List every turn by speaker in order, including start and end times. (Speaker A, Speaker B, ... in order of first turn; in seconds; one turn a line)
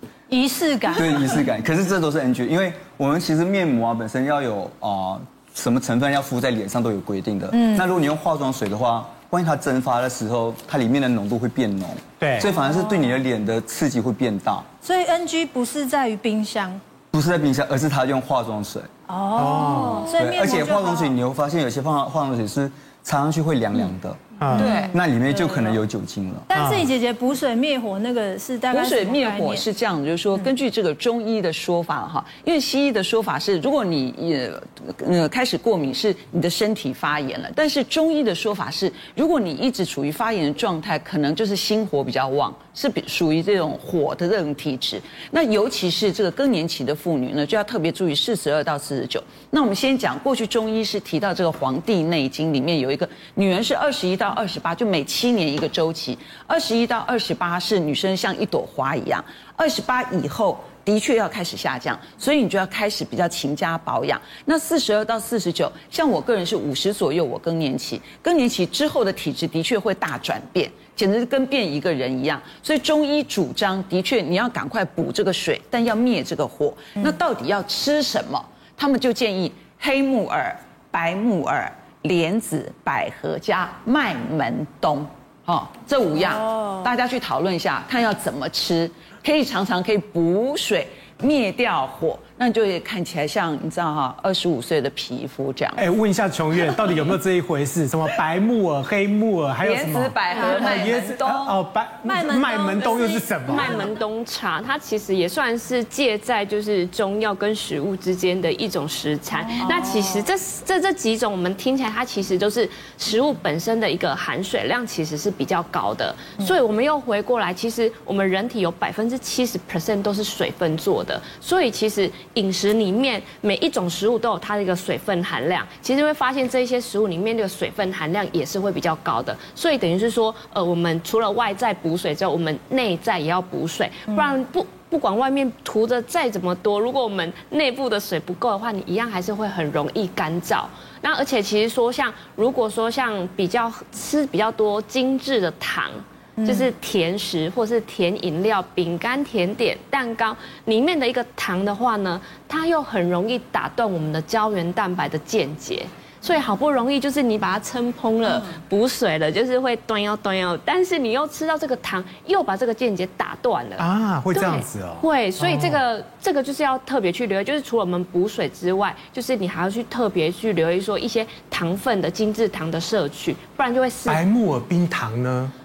Speaker A: 0.3-1.4
Speaker B: 1.0-14.7
Speaker A: 7.5-7.9
Speaker C: 12.2-12.5
Speaker A: 14.8-16.8
Speaker B: 17.1-18.9
Speaker A: 19.1-21.2
Speaker C: 19.4-20.0
Speaker B: 20.1-26.5
Speaker C: 24.4-24.7
Speaker A: 24.5-24.9
Speaker D: 24.6-24.9
Speaker A: 26.5-29.7
Speaker C: 26.6-26.9
Speaker D: 28.7-95.9
Speaker A: 86.2-86.9
Speaker C: 95.8-103.8
Speaker D: 99.7-101.6
Speaker A: 100.3-101.0
Speaker A: 102.0-104.0
Speaker E: 103.5-174.2
Speaker A: 109.3-110.3
Speaker A: 146.4-146.7
Speaker C: 163.8-165.8
Speaker C: 174.1-175.5